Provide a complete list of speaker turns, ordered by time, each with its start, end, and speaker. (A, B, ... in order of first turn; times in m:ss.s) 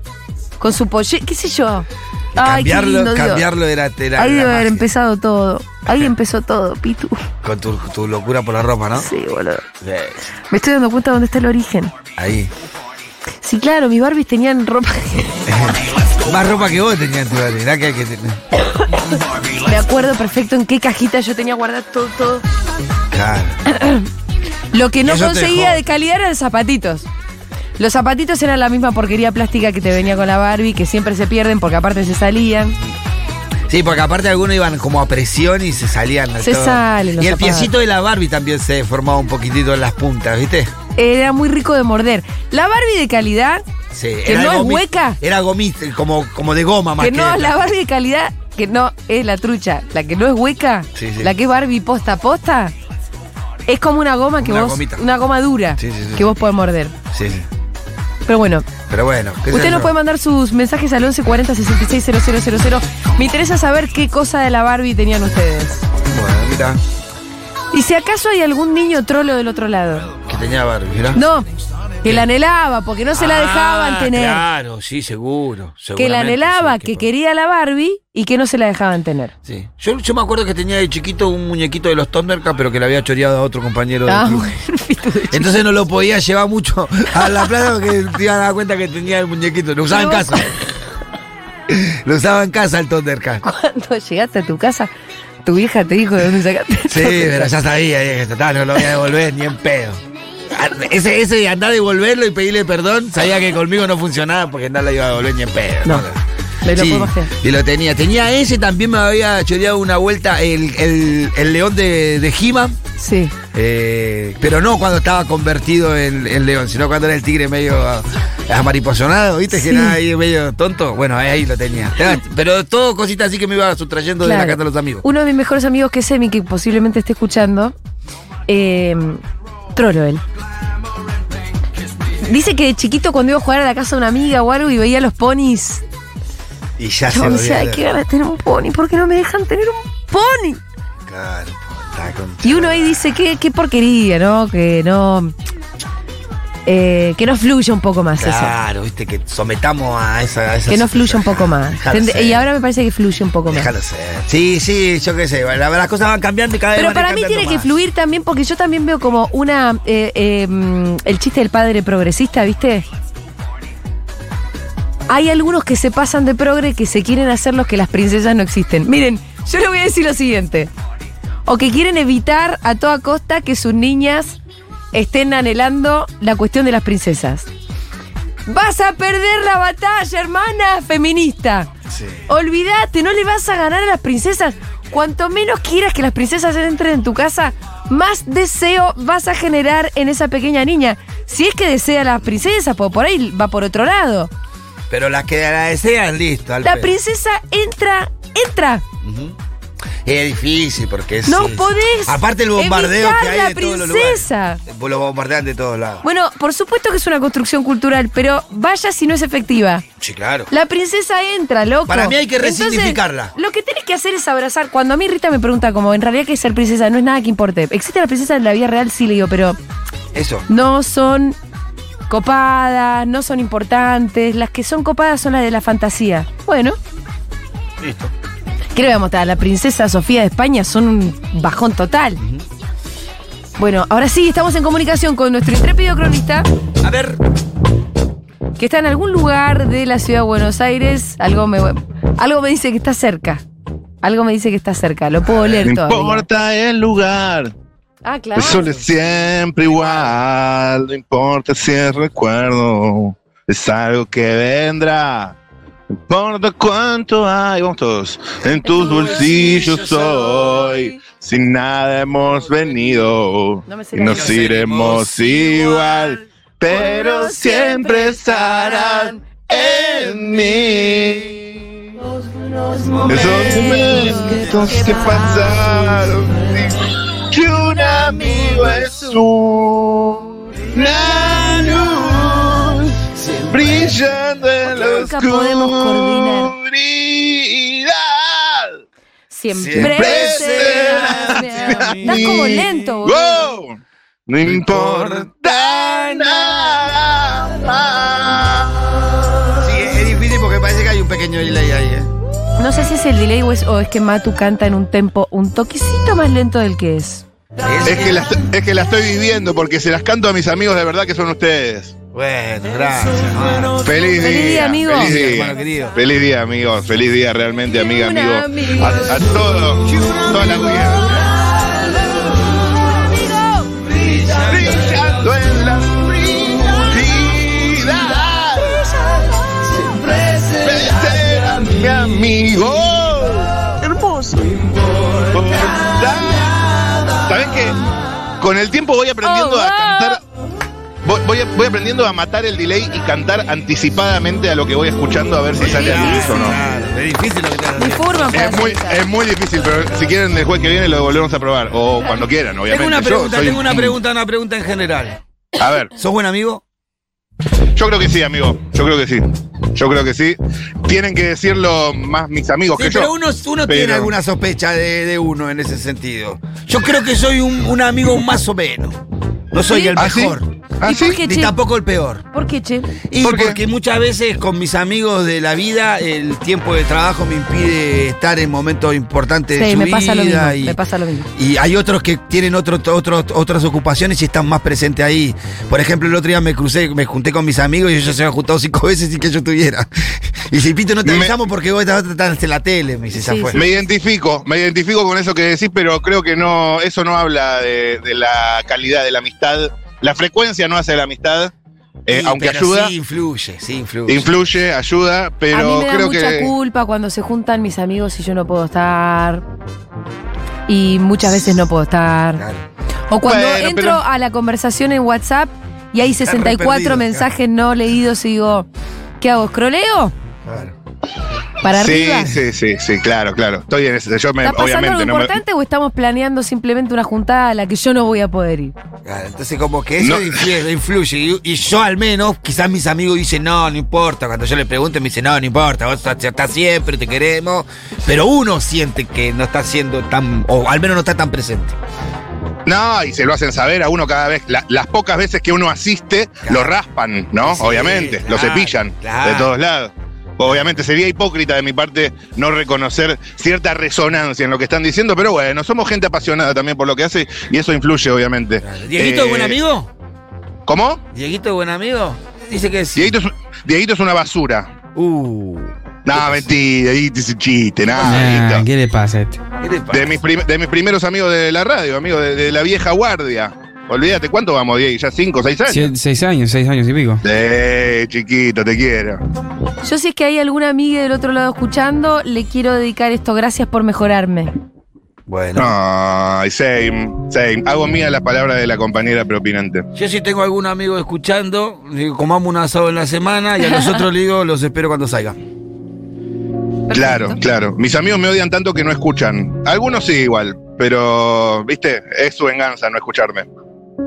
0:00.6-0:03.5 A
0:02.3-0:04.9 B
0:04.2-0:07.2 A
0:07.4-0:09.1 B
0:09.0-0:09.6 A
0:09.8-0:10.2 B
0:10.5-0:11.9 A
0:12.2-0:12.5 B
0:13.4-0:15.4 A
0:15.5-0:18.4 B
0:19.6-0:22.4 A
0:23.1-0:23.6 B
0:23.7-0:24.1 A
0:24.7-0:27.1 A
0:25.0-0:25.8 B
0:27.8-0:32.8 A
0:33.7-0:40.7 B
0:36.4-0:37.7 A
0:41.0-0:43.6 A
0:43.9-0:47.7 B
0:44.2-0:45.2 A
0:47.0-0:52.7 A
0:51.0-0:51.3 B
0:53.7-0:57.0 A
0:54.4-0:55.1 B
0:55.8-0:56.3 B
0:57.1-0:57.5 B
0:58.3-0:58.7 A
0:58.9-1:00.0 B
0:59.5-1:05.9 A
1:06.1-1:06.8 B
1:07.7-1:10.1 A
1:10.2-1:11.2 B
1:11.2-1:11.5 A
1:12.0-1:14.4 A
1:13.1-1:17.1 B
1:16.0-1:19.3 A
1:19.4-1:24.5 B
1:24.1-1:25.5 A
1:25.3-1:30.5 B
1:29.9-1:30.6 A
1:31.7-1:33.4 B
1:33.4-1:34.9 A
1:35.4-1:37.5 A
1:36.9-1:52.8 B
1:46.6-1:47.3 A
1:53.0-1:53.3 A
1:53.5-2:05.0 B
1:59.5-2:00.0 A
2:04.2-2:07.7 A
2:08.5-2:09.2 A
2:09.8-2:10.2 A
2:12.2-2:15.8 A
2:16.8-2:17.8 B
2:17.1-2:20.6 A
2:21.0-2:23.1 B
2:22.4-2:25.3 A
2:26.7-2:28.5 A
2:28.2-2:32.5 B
2:30.7-2:33.7 A
2:33.5-2:37.7 B
2:36.8-2:42.8 A
2:45.1-2:50.7 A
2:51.5-2:54.4 A
2:54.9-2:57.5 A
2:58.5-3:01.7 A
3:01.9-3:02.2 B
3:02.3-3:14.3 A
3:14.9-3:16.9 B
3:16.6-3:18.8 A
3:19.0-3:19.4 B
3:20.0-3:26.0 B
3:21.3-3:24.6 A
3:26.0-3:29.8 A
3:30.0-3:30.5 B
3:30.5-3:39.6 A
3:31.9-3:33.3 B
3:40.1-3:40.5 B
3:40.5-3:41.4 A
3:42.1-3:46.8 A
3:47.8-3:48.1 B
3:48.8-3:52.2 A
3:53.6-3:56.5 A
3:56.8-3:57.2 B
3:58.6-4:03.4 A
4:04.0-4:06.3 A
4:05.3-4:05.7 B
4:05.6-4:07.5 C
4:08.0-4:08.7 A
4:08.4-4:15.4 C
4:09.7-4:10.1 B
4:16.1-4:31.4 C
4:18.4-4:20.7 B
4:23.7-4:24.4 A
4:24.1-4:26.1 B
4:26.7-4:29.2 A
4:29.7-4:30.1 B
4:32.8-4:35.6 A
4:33.0-4:34.4 B
4:33.0-4:48.8 C
4:38.3-4:38.6 A
4:43.2-4:44.0 B
4:44.7-4:46.5 A
4:49.3-4:53.4 A
4:49.5-4:52.6 B
4:49.7-4:58.9 C
4:54.4-4:55.3 B
4:59.6-5:02.1 B
5:02.6-5:07.2 A
5:07.6-5:08.3 B
5:07.8-5:12.0 C
5:12.1-5:13.8 B
5:13.8-5:21.2 C
5:14.2-5:15.1 A
5:14.8-5:16.0 B
5:17.7-5:19.2 A
5:23.1-5:23.6 A
5:24.1-5:24.8 B
5:24.2-5:28.9 C
5:30.5-5:33.7 C
5:35.3-5:37.8 C
5:38.4-5:40.2 C
5:39.2-5:40.2 A
5:41.0-5:46.6 C
5:45.6-5:48.4 B
5:45.7-5:46.6 A
5:47.8-5:49.0 A
5:48.3-5:54.0 C
5:52.7-5:55.2 B
5:55.6-5:55.9 C
5:55.9-5:56.6 B
5:57.8-6:03.1 C
6:02.8-6:09.0 B
6:03.7-6:04.1 C
6:09.5-6:12.3 B
6:09.7-6:10.0 A
6:10.0-6:11.2 C
6:10.8-6:11.5 A
6:12.3-6:12.9 A
6:13.1-6:20.8 B
6:13.2-6:13.6 C
6:19.6-6:21.3 A
6:21.4-6:33.7 B
6:31.0-6:31.3 C
6:33.2-6:33.6 A
6:33.5-6:41.5 C
6:42.1-6:42.9 C
6:42.1-6:44.4 B
6:44.1-6:46.5 C
6:45.5-6:49.4 A
6:50.7-6:52.4 A
6:52.4-6:52.6 B
6:53.1-6:58.7 A
6:53.2-6:54.0 C
6:56.0-6:57.3 B
6:59.2-7:00.1 A
7:00.4-7:00.8 B
7:01.6-7:02.3 A
7:01.7-7:05.4 C
7:04.4-7:08.8 A
7:09.0-7:21.8 B
7:10.0-7:10.4 C
7:22.7-7:39.6 C
7:26.4-7:26.7 B
7:27.4-7:29.5 B
7:38.6-7:39.9 B
7:40.7-7:41.0 C
7:41.1-7:43.2 B
7:43.0-7:44.7 C
7:44.9-7:46.5 B
7:46.1-7:48.7 C
7:48.0-7:49.4 D
7:49.6-7:50.2 B
7:49.9-7:55.9 C
7:55.7-7:57.2 D
7:57.2-7:59.2 C
7:59.8-8:04.5 A
8:05.3-8:05.8 B
8:05.6-8:09.9 C
8:10.0-8:15.4 B
8:13.7-8:14.0 A
8:16.9-8:17.4 A
8:16.9-8:23.5 C